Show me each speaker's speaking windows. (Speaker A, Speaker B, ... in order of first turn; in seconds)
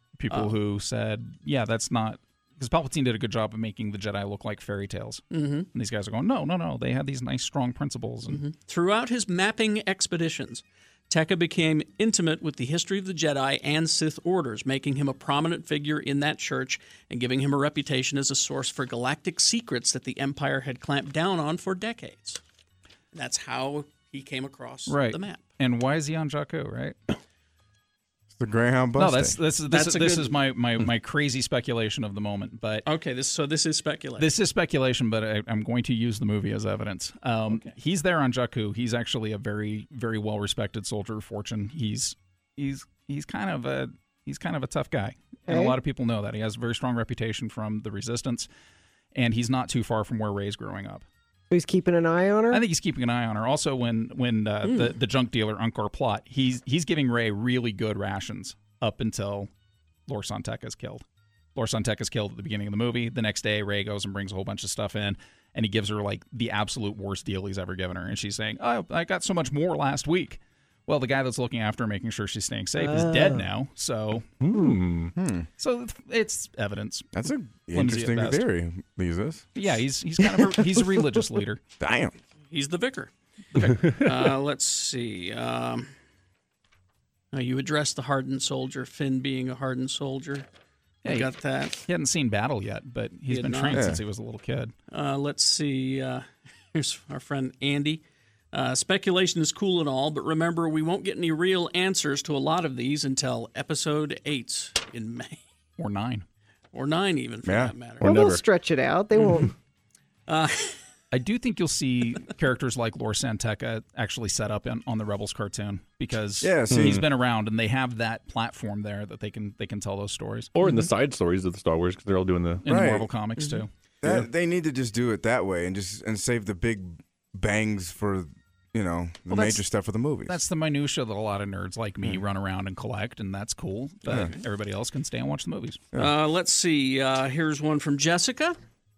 Speaker A: 0.2-8.4, 24.9-27.0, 29.0-32.9, 34.2-48.5, 49.1-51.0, 52.5-59.5, 60.1-61.0, 61.5-74.3, 75.6-77.1, 77.7-78.5, 79.5-81.6, 91.0-91.3, 91.9-94.7, 105.8-106.2, 111.1-120.5, 122.6-123.7, 129.3-129.7, 130.3-135.9
Speaker B: 0.3-0.6, 5.3-5.7, 8.3-22.4, 23.1-25.4, 29.7-30.4, 32.9-34.3, 37.5-37.7, 54.6-55.0, 82.5-83.1, 83.8-85.9, 87.3-90.5, 91.0-91.8, 93.3-93.8, 94.9-98.0, 98.5-105.4, 106.7-108.1, 109.2-109.4, 110.3-110.8, 134.1-134.4, 135.9-138.6
Speaker C: 28.4-29.4, 75.1-75.5, 77.1-79.5, 81.8-82.1, 93.7-94.0, 107.5-107.7, 116.4-117.0, 122.7-123.1, 124.0-130.4
Speaker D: 45.5-45.8, 51.5-52.6, 72.8-73.5, 108.0-109.5
Speaker E: 74.4-75.1, 108.0-108.4, 116.7-117.1, 120.5-122.6